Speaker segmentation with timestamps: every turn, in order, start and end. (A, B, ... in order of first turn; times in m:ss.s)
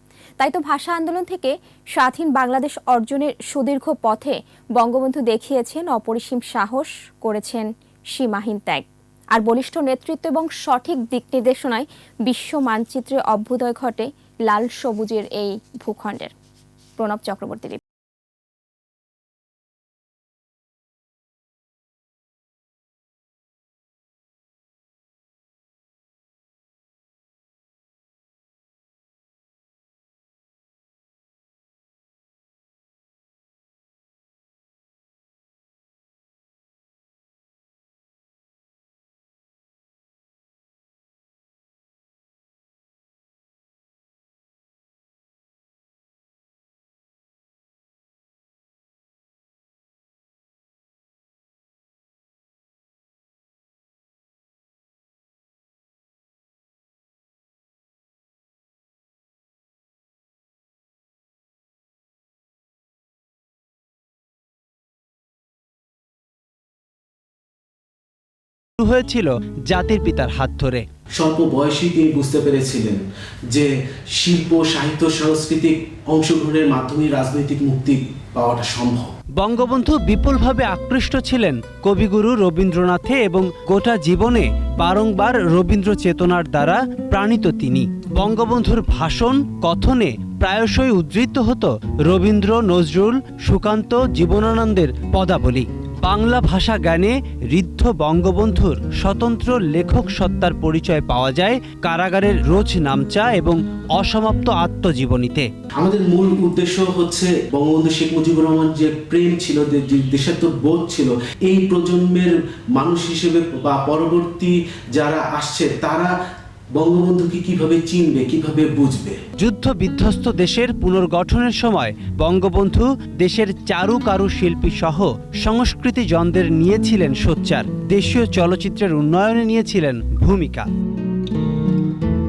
0:00.4-0:16.3 A
0:17.0-0:17.8 A
1:08.8-1:10.8 B
1:11.2-1:19.1 C
1:19.4-1:45.5 B
1:45.8-1:56.1 C
1:56.7-1:59.2 C
1:59.4-2:10.7 B